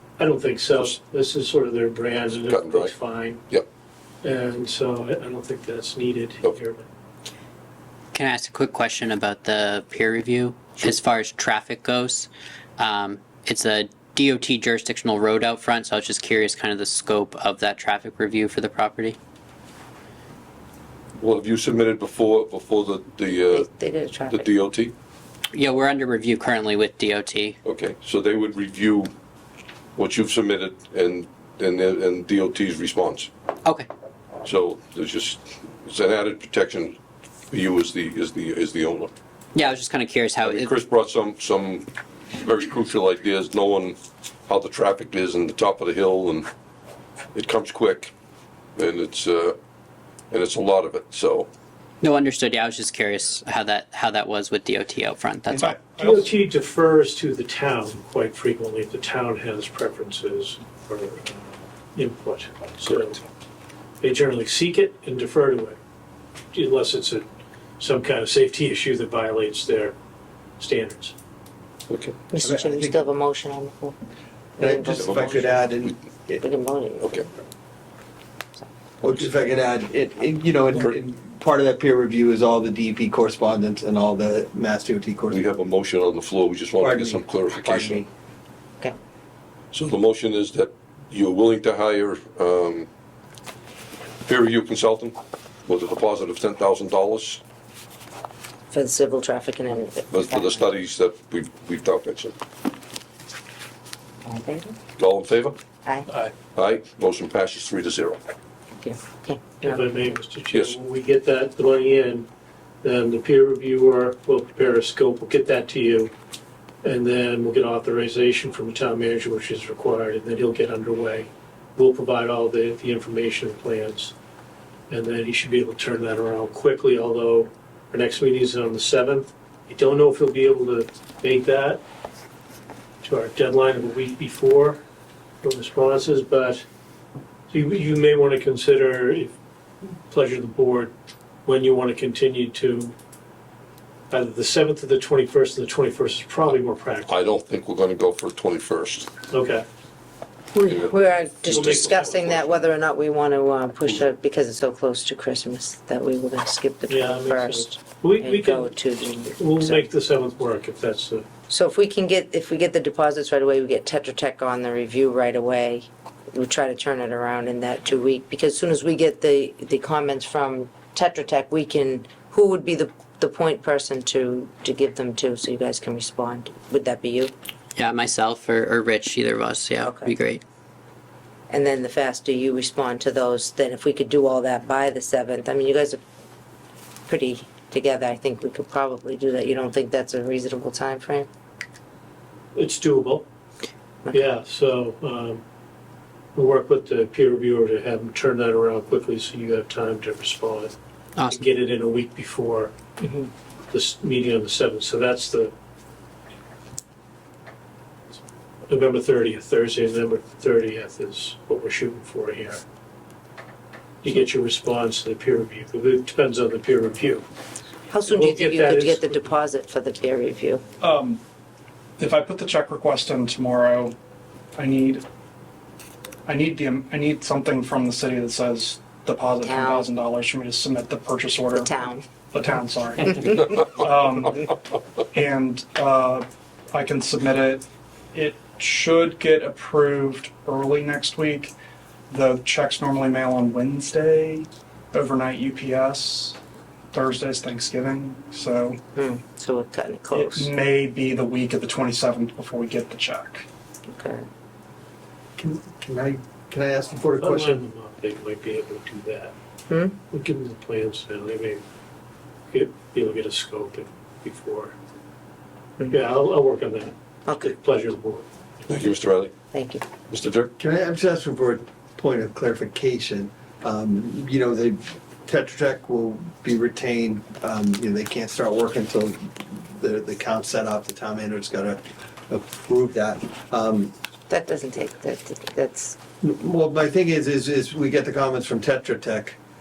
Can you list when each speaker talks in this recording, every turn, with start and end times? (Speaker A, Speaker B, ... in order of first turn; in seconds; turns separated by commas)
Speaker A: 0.2-3.4, Speaker B: 2.4-2.9, Speaker A: 4.2-6.9, Speaker C: 8.1-19.2, Speaker B: 21.2-23.7, Speaker D: 23.5-24.5, Speaker B: 24.3-24.9, Speaker C: 25.5-27.6, Speaker B: 27.6-29.1, Speaker B: 29.9-33.3, Speaker B: 34.4-37.0, Speaker B: 37.5-39.1, Speaker C: 39.5-40.7, Speaker B: 40.4-46.5, Speaker B: 47.3-48.1, Speaker B: 48.8-49.6, Speaker B: 50.3-51.5, Speaker C: 52.0-55.8, Speaker E: 55.5-56.3, Speaker A: 56.0-63.2, Speaker A: 64.0-65.8, Speaker A: 66.5-67.2, Speaker A: 67.8-69.9, Speaker A: 70.6-71.1, Speaker B: 71.9-72.2, Speaker D: 72.3-74.0, Speaker F: 72.4-73.1, Speaker F: 74.6-76.4, Speaker D: 74.6-75.6, Speaker B: 75.0-75.9, Speaker D: 76.4-77.2, Speaker B: 77.0-77.3, Speaker F: 79.0-85.4, Speaker B: 85.3-88.0, Speaker F: 86.8-88.1, Speaker B: 89.7-92.9, Speaker B: 94.2-95.2, Speaker B: 95.7-97.4, Speaker D: 98.7-100.6, Speaker B: 100.1-102.3, Speaker D: 104.2-104.7, Speaker B: 105.0-105.6, Speaker A: 106.1-106.3, Speaker B: 106.5-108.2, Speaker D: 108.8-110.1, Speaker A: 109.6-112.3, Speaker B: 110.5-110.8, Speaker A: 112.8-116.1, Speaker A: 116.8-124.1, Speaker A: 124.9-131.8, Speaker A: 133.0-134.8, Speaker A: 135.4-136.6, Speaker A: 137.5-139.3, Speaker A: 140.1-140.9, Speaker A: 141.4-142.9, Speaker A: 144.1-147.1, Speaker B: 147.1-149.1, Speaker A: 149.3-149.6, Speaker D: 150.5-159.9, Speaker B: 150.7-152.7, Speaker A: 156.9-158.7, Speaker A: 159.3-161.2, Speaker D: 161.5-177.3, Speaker C: 177.8-180.4, Speaker D: 179.8-180.1, Speaker D: 181.5-186.0, Speaker D: 187.1-191.3, Speaker A: 192.5-193.2, Speaker A: 194.1-195.4, Speaker A: 196.3-200.7, Speaker C: 201.2-201.4, Speaker A: 201.3-202.7, Speaker D: 203.0-203.3, Speaker A: 203.7-205.5, Speaker A: 208.7-212.6, Speaker A: 214.0-217.2, Speaker D: 217.9-220.6, Speaker A: 218.1-219.3, Speaker E: 220.8-221.2, Speaker E: 222.0-223.9, Speaker E: 224.5-225.0, Speaker E: 226.2-231.8, Speaker D: 229.4-229.9, Speaker D: 231.5-232.0, Speaker E: 232.3-234.6, Speaker E: 235.1-241.5, Speaker E: 242.1-246.4, Speaker E: 246.9-248.8, Speaker D: 248.9-250.5, Speaker E: 250.1-253.4, Speaker D: 253.9-254.2, Speaker F: 255.4-257.6, Speaker A: 257.2-259.3, Speaker D: 259.7-259.9, Speaker A: 260.1-261.6, Speaker A: 262.5-264.8, Speaker A: 265.9-268.3, Speaker D: 267.2-267.5, Speaker B: 268.7-269.3, Speaker D: 269.5-269.8, Speaker B: 270.1-270.5, Speaker F: 270.6-283.9, Speaker D: 284.3-285.9, Speaker F: 286.2-289.4